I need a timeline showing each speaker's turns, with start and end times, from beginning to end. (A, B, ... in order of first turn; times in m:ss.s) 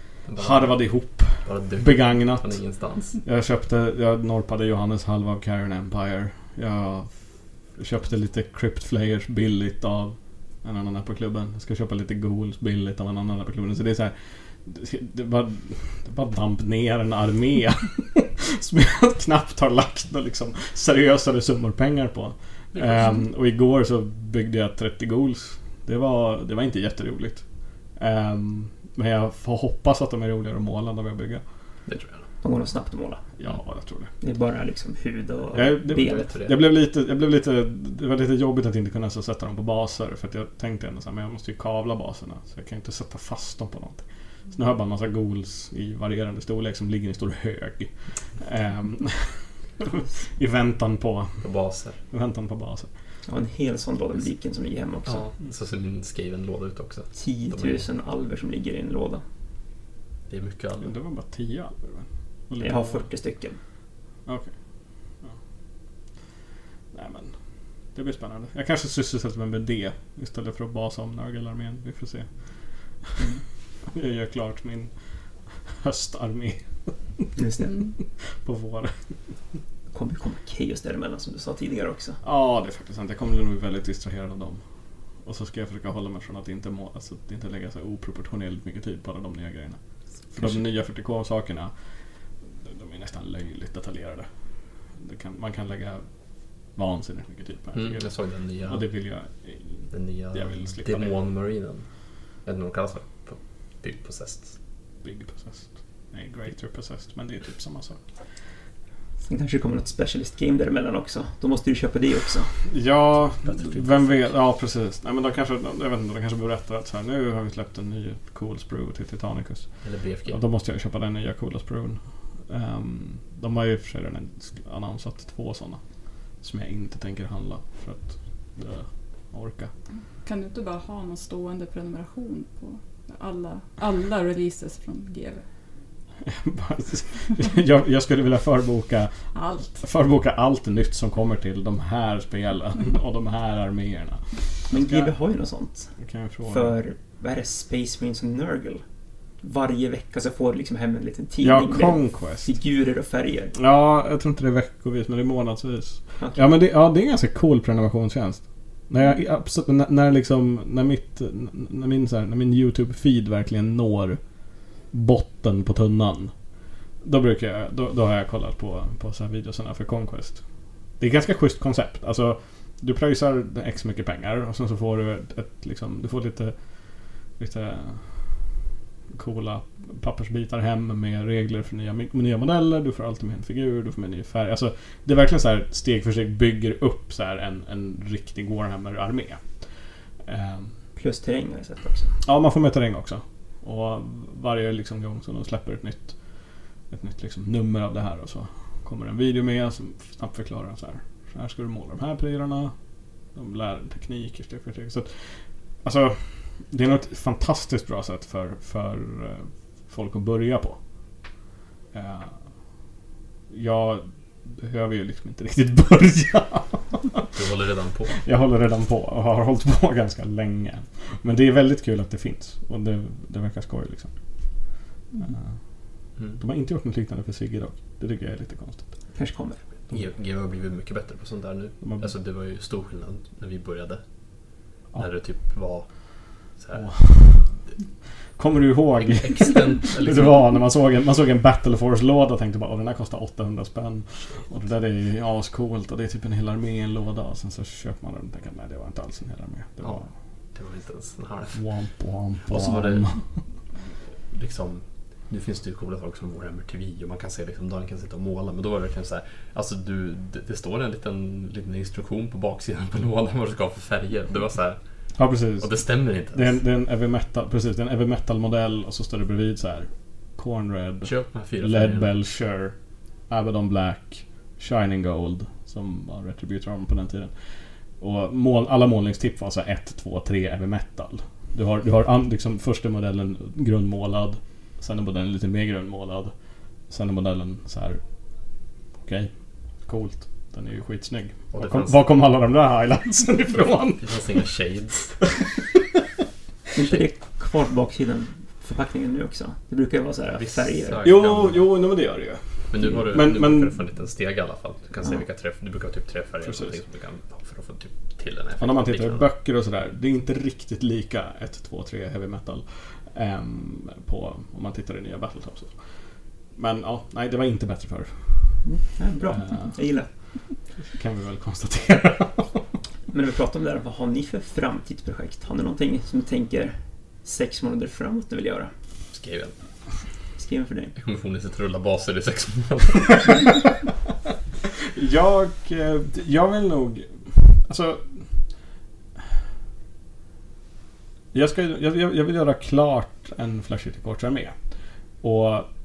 0:00.3-0:00.9 A
0:00.4-0:02.6 B
0:01.4-0:03.2 A
0:03.2-0:07.1 B
0:07.8-0:27.4 B
0:22.7-0:23.1 A
0:28.0-0:31.4 B
0:31.9-0:32.3 A
0:32.4-0:33.2 C
0:33.4-0:34.1 B
0:34.2-0:36.3 C
0:35.5-0:51.4 B
0:35.9-0:36.6 A
0:51.4-0:52.0 A
0:52.1-0:52.9 B
0:53.3-0:55.2 C
0:55.1-0:57.8 A
0:57.2-0:59.2 C
1:00.3-1:00.9 A
1:00.8-1:03.1 B
1:02.6-1:03.6 C
1:06.9-1:07.3 B
1:07.9-1:12.3 B
1:13.9-1:14.9 B
1:15.6-1:17.3 B
1:17.4-1:17.8 C
1:18.4-1:19.0 B
1:19.9-1:22.2 C
1:22.2-1:24.6 B
1:25.2-1:29.8 B
1:30.3-1:31.7 B
1:32.6-1:34.3 B
1:35.0-1:36.0 B
1:36.8-1:38.1 B
1:37.7-1:38.9 A
1:38.7-1:41.1 B
1:39.9-1:41.8 A
1:42.4-1:44.5 A
1:45.0-1:48.0 B
1:49.2-1:52.6 C
1:52.7-1:59.7 B
1:53.4-1:54.1 A
1:59.8-2:00.4 A
2:00.3-2:05.8 B
2:06.4-2:09.7 B
2:10.2-2:15.4 D
2:16.2-2:19.1 B
2:19.3-2:19.8 D
2:19.8-2:25.1 B
2:24.7-2:25.9 C
2:26.0-2:26.8 B
2:26.5-2:28.8 C
2:29.4-2:33.6 C
2:31.4-2:32.5 B
2:33.6-2:44.2 B
2:44.9-2:46.3 B
2:47.0-2:50.4 B
2:51.0-2:56.6 B
2:57.4-2:58.4 B
2:59.1-3:09.4 B
3:10.2-3:10.8 B
3:11.0-3:12.2 C
3:12.2-3:16.2 B
3:16.9-3:22.7 B
3:23.4-3:30.8 B
3:31.9-3:32.4 B
3:33.5-3:37.3 B
3:37.3-3:38.2 A
3:38.2-3:44.1 B
3:45.2-3:45.6 B
3:46.4-3:48.9 B
3:49.1-3:49.6 C
3:49.9-3:54.0 A
3:54.9-3:55.9 A
3:56.6-3:57.5 A
3:56.7-3:57.6 B
3:58.4-4:10.1 B
3:59.0-4:00.5 A
4:09.8-4:11.7 A
4:11.5-4:13.2 B
4:12.5-4:13.1 A
4:14.3-4:24.8 A
4:25.2-4:25.7 B
4:25.6-4:26.6 A
4:26.3-4:32.7 B
4:31.0-4:32.1 A
4:33.3-4:37.3 B
4:38.0-4:46.3 B
4:46.9-4:48.0 B
4:49.0-4:49.3 B
4:49.9-4:54.2 B
4:51.5-4:52.0 A
4:54.0-4:55.3 A
4:56.8-5:01.1 C
5:00.4-5:01.7 A
5:01.0-5:03.8 B
5:02.7-5:09.3 A
5:06.4-5:06.7 B
5:08.6-5:15.8 B
5:16.6-5:18.6 B
5:18.6-5:20.1 C
5:19.3-5:19.8 B
5:20.8-5:22.6 B
5:23.1-5:28.7 C
5:29.1-5:29.5 A
5:30.4-5:31.0 C
5:31.0-5:33.6 A
5:34.9-5:38.2 B
5:41.3-5:44.5 B
5:45.2-5:45.7 B